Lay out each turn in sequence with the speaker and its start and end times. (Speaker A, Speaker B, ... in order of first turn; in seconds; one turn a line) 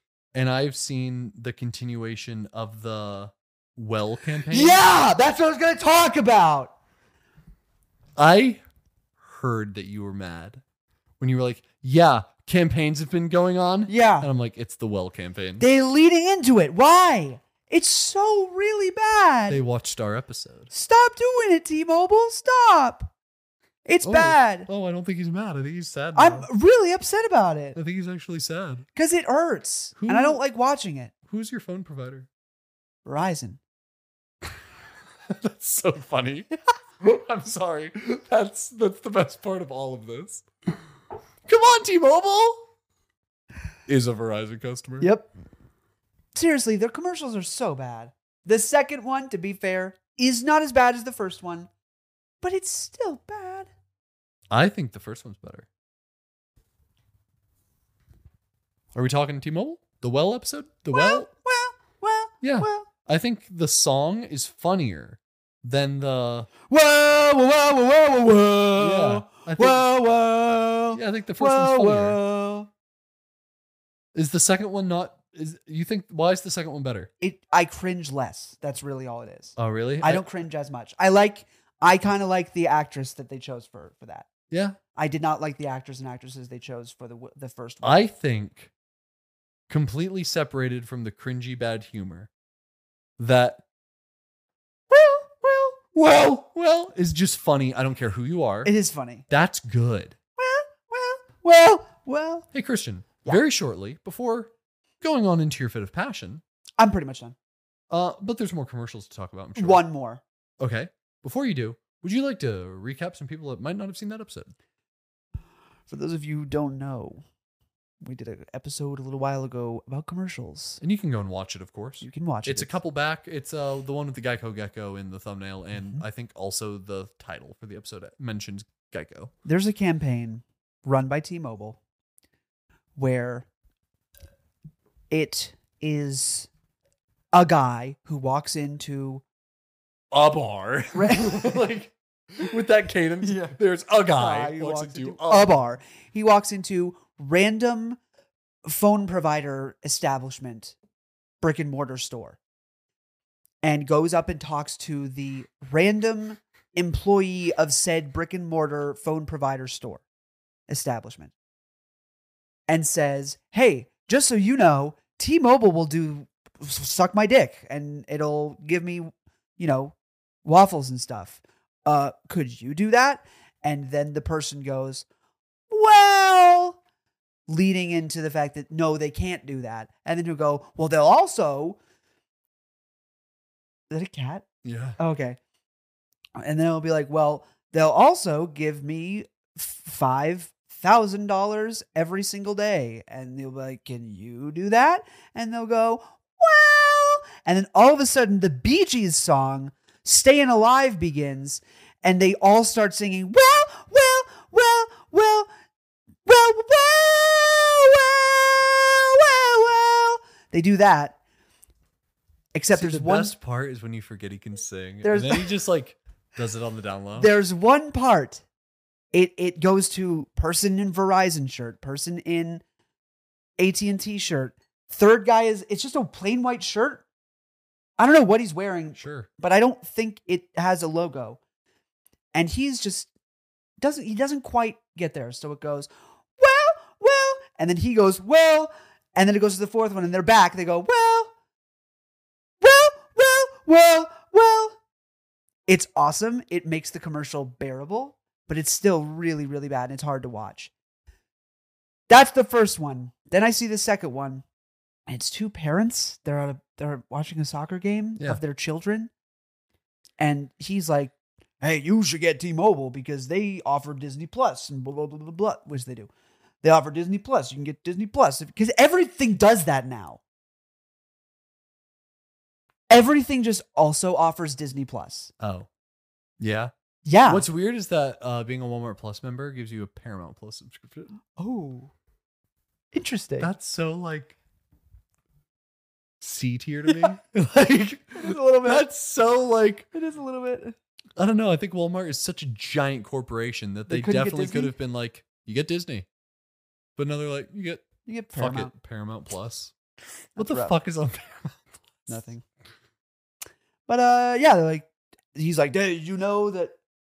Speaker A: 0.3-4.8
Speaker B: 4.5-6.7
Speaker A: 8.2-8.6
Speaker A: 9.2-10.6
Speaker A: 11.2-15.6
Speaker B: 13.9-14.3
Speaker B: 15.6-19.6
Speaker A: 19.5-20.7
Speaker B: 20.7-23.1
Speaker B: 23.8-24.7
Speaker A: 24.0-26.5
Speaker B: 26.1-27.8
Speaker A: 27.7-28.9
Speaker B: 28.9-31.1
Speaker A: 29.9-30.4
Speaker A: 31.3-32.3
Speaker B: 33.0-33.6
Speaker A: 35.3-40.5
Speaker A: 41.5-42.6
Speaker A: 43.9-45.1
Speaker B: 45.0-45.3
Speaker B: 46.3-51.7
Speaker B: 52.4-53.7
Speaker A: 54.5-55.7
Speaker A: 58.9-61.3
Speaker B: 60.9-62.9
Speaker A: 62.4-66.5
Speaker B: 66.7-72.7
Speaker A: 68.8-69.9
Speaker A: 70.9-72.2
Speaker A: 74.1-77.1
Speaker B: 77.2-84.3
Speaker A: 79.6-80.3
Speaker A: 84.5-84.8
Speaker B: 84.9-88.0
Speaker A: 87.8-88.7
Speaker A: 89.7-92.3
Speaker A: 93.2-93.6
Speaker B: 94.9-95.7
Speaker A: 95.6-98.7
Speaker B: 98.6-99.2
Speaker A: 99.3-100.2
Speaker B: 100.4-102.5
Speaker A: 102.5-106.4
Speaker B: 106.8-107.3
Speaker A: 107.9-109.8
Speaker B: 109.5-110.2
Speaker A: 110.6-114.5
Speaker B: 115.9-117.2
Speaker B: 118.0-120.8
Speaker A: 120.8-129.3
Speaker B: 122.0-122.8
Speaker B: 125.8-126.0
Speaker B: 129.4-131.8
Speaker B: 132.9-133.5
Speaker B: 135.1-136.5
Speaker B: 137.3-139.2
Speaker A: 140.1-145.6
Speaker B: 140.9-141.7
Speaker B: 143.2-143.6
Speaker B: 144.1-148.0
Speaker B: 148.6-150.8
Speaker B: 151.4-152.4
Speaker B: 153.6-160.0
Speaker B: 160.7-161.3
Speaker B: 162.7-175.1
Speaker B: 175.7-176.8
Speaker B: 177.5-181.8
Speaker B: 183.9-184.4
Speaker A: 184.6-185.0
Speaker B: 185.0-185.4
Speaker B: 186.4-205.5
Speaker B: 206.2-211.2
Speaker B: 212.5-213.3
Speaker A: 212.7-217.3
Speaker B: 215.0-215.5
Speaker B: 217.2-218.4
Speaker B: 219.1-222.6
Speaker B: 223.6-227.0
Speaker B: 228.0-231.4
Speaker A: 228.9-229.3
Speaker B: 232.3-233.1
Speaker B: 233.8-241.3
Speaker B: 242.6-244.8
Speaker B: 245.7-250.7
Speaker B: 252.1-254.4
Speaker B: 255.1-259.1
Speaker B: 260.2-266.1
Speaker B: 266.6-270.2
Speaker B: 272.9-275.3
Speaker A: 275.4-275.7
Speaker A: 276.4-276.7
Speaker B: 277.0-277.5
Speaker A: 277.2-281.1
Speaker B: 281.4-281.9
Speaker B: 282.9-283.5
Speaker A: 283.4-284.4
Speaker A: 286.2-289.9
Speaker B: 288.1-288.9
Speaker B: 289.9-290.8
Speaker A: 291.1-296.1
Speaker B: 293.9-294.7
Speaker A: 296.9-299.7
Speaker B: 298.1-298.7
Speaker A: 300.4-301.6
Speaker B: 300.4-300.7
Speaker B: 302.1-302.4
Speaker B: 303.9-306.8